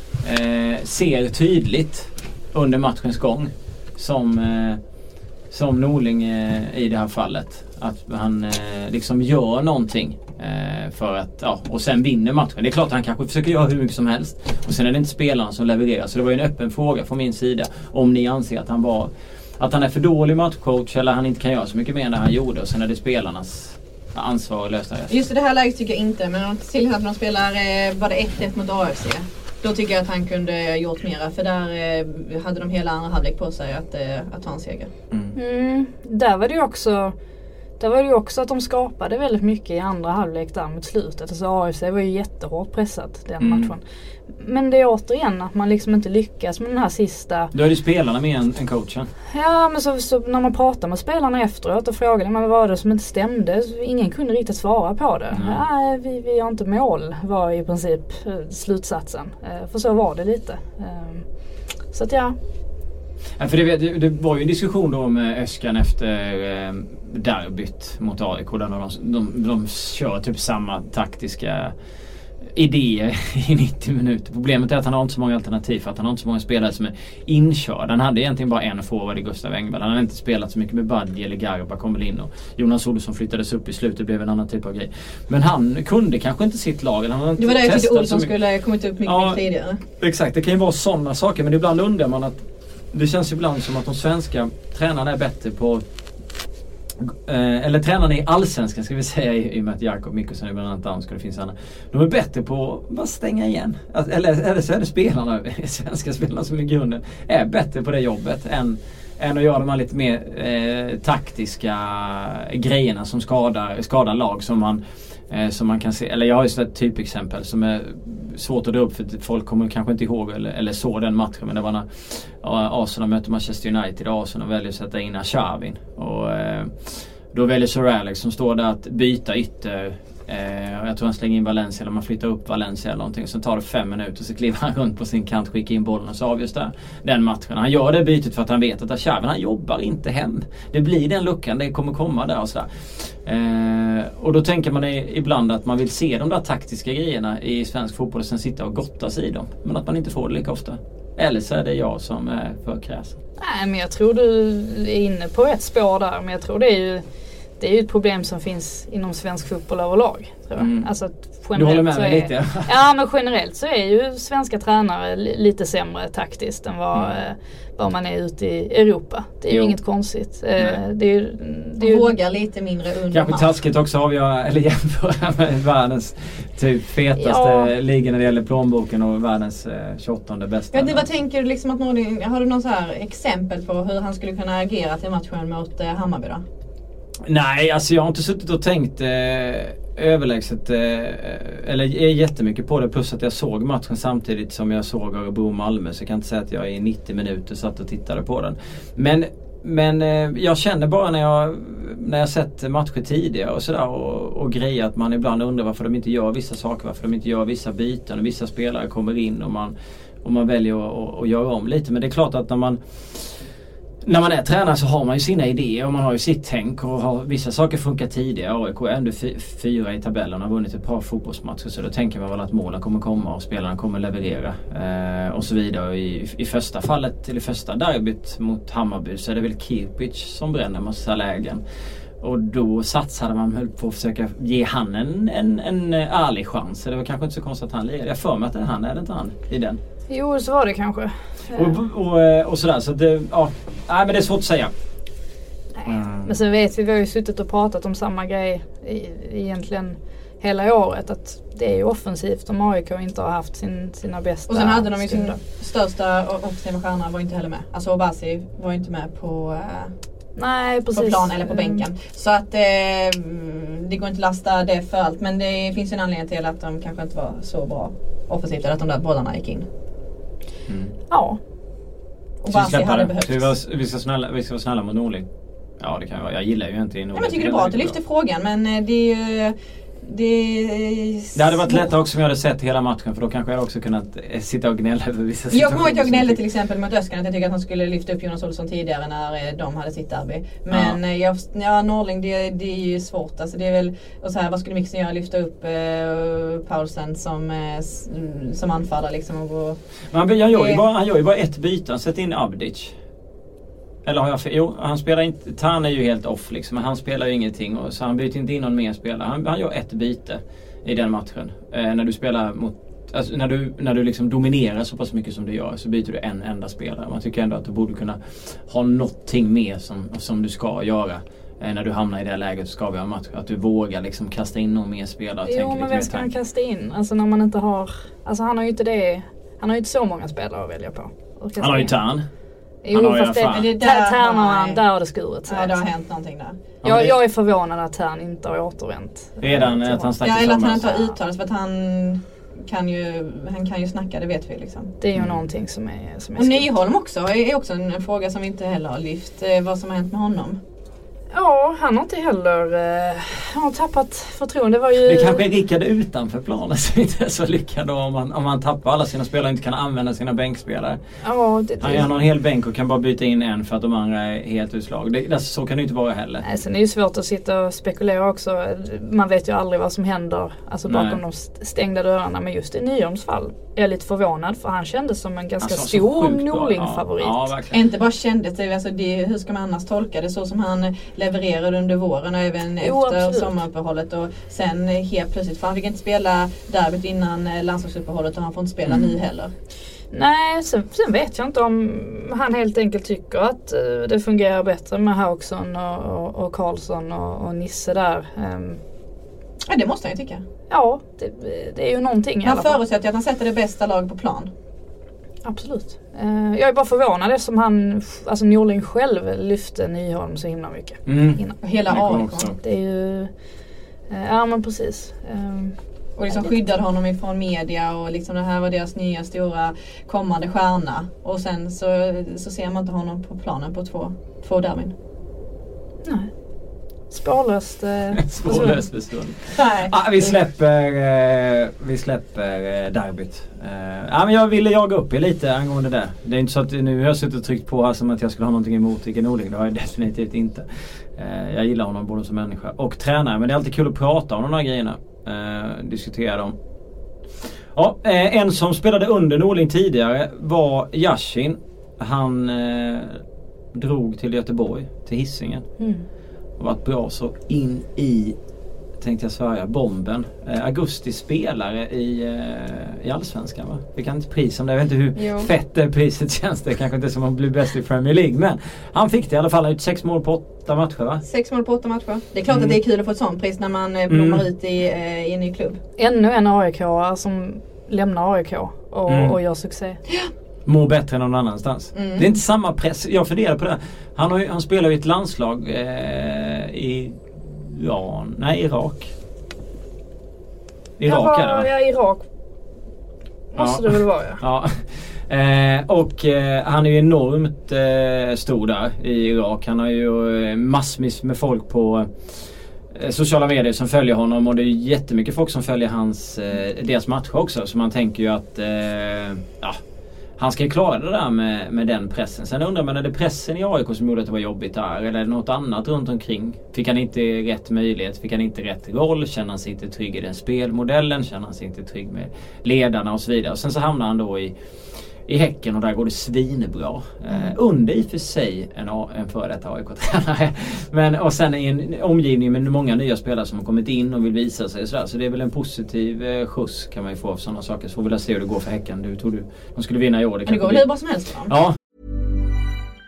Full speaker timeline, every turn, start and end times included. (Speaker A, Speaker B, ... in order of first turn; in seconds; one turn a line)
Speaker A: 0.2-4.8
Speaker A: 5.5-25.1
Speaker B: 25.1-34.9
Speaker C: 35.3-37.1
Speaker C: 37.8-43.8
Speaker A: 43.4-43.7
Speaker C: 44.3-47.5
Speaker A: 47.5-49.1
Speaker C: 49.3-61.3
Speaker A: 55.3-55.6
Speaker C: 61.9-62.4
Speaker A: 63.4-71.7
Speaker A: 72.5-88.3
Speaker B: 87.4-89.8
Speaker A: 89.0-89.4
Speaker A: 90.0-95.8
Speaker A: 97.0-153.2
Speaker C: 153.4-157.0
Speaker C: 157.6-172.1
Speaker A: 160.6-160.9
Speaker A: 161.5-162.7
Speaker A: 169.5-169.8
Speaker B: 171.8-173.5
Speaker A: 173.1-181.0
Speaker C: 177.2-177.7
Speaker B: 180.7-186.4
Speaker A: 187.2-213.5
Speaker A: 214.0-231.6
Speaker A: 232.2-239.8
Speaker C: 240.1-241.8
Speaker A: 241.5-244.7
Speaker C: 245.8-255.3
Speaker A: 245.8-246.3
Speaker B: 254.5-259.9
Speaker C: 260.4-261.8
Speaker B: 260.9-269.6
Speaker A: 270.7-270.9
Speaker C: 271.1-271.4
Speaker B: 272.4-273.5
Speaker A: 272.5-275.3
Speaker A: 275.8-278.0
Speaker B: 277.1-281.8
Speaker A: 281.3-286.4
Speaker B: 285.5-299.8
Speaker A: 290.7-291.0
Speaker A: 300.1-302.9
Speaker B: 300.5-300.8
Speaker A: 304.0-326.3
Speaker C: 325.4-332.0
Speaker A: 331.6-332.2
Speaker C: 332.8-335.8
Speaker A: 332.9-333.7
Speaker B: 333.5-334.8
Speaker B: 335.5-336.6
Speaker A: 336.8-337.1
Speaker C: 336.8-341.1
Speaker A: 339.4-340.9
Speaker B: 340.2-344.9
Speaker C: 345.0-346.7
Speaker B: 346.4-350.6
Speaker C: 351.3-355.4
Speaker A: 355.0-361.0
Speaker C: 361.2-362.1
Speaker A: 361.8-366.4
Speaker C: 366.4-377.5
Speaker A: 370.9-371.2
Speaker A: 375.6-377.8
Speaker B: 377.7-389.5
Speaker C: 382.8-383.6
Speaker A: 388.9-389.1
Speaker C: 390.1-398.8
Speaker B: 399.7-400.4
Speaker C: 400.7-402.8
Speaker B: 402.4-404.5
Speaker C: 405.4-411.6
Speaker A: 411.1-412.6
Speaker B: 411.6-412.5
Speaker C: 412.5-413.3
Speaker C: 414.1-415.8
Speaker B: 416.2-424.9
Speaker C: 426.0-426.3
Speaker C: 427.1-428.8
Speaker A: 428.1-446.5
Speaker B: 429.6-429.9
Speaker A: 447.7-453.2
Speaker A: 453.7-455.7
Speaker C: 455.8-456.1
Speaker A: 456.6-458.4
Speaker A: 459.0-471.2
Speaker B: 465.2-465.5
Speaker B: 471.2-475.8
Speaker A: 472.5-472.8
Speaker A: 474.1-474.4
Speaker C: 476.0-480.0
Speaker A: 479.1-479.4
Speaker A: 480.6-489.1
Speaker B: 481.9-482.3
Speaker A: 491.0-491.7
Speaker C: 491.1-492.2
Speaker C: 493.5-494.4
Speaker A: 493.6-509.8
Speaker A: 510.4-524.5
Speaker A: 525.2-540.8
Speaker B: 540.5-541.5
Speaker A: 541.5-541.8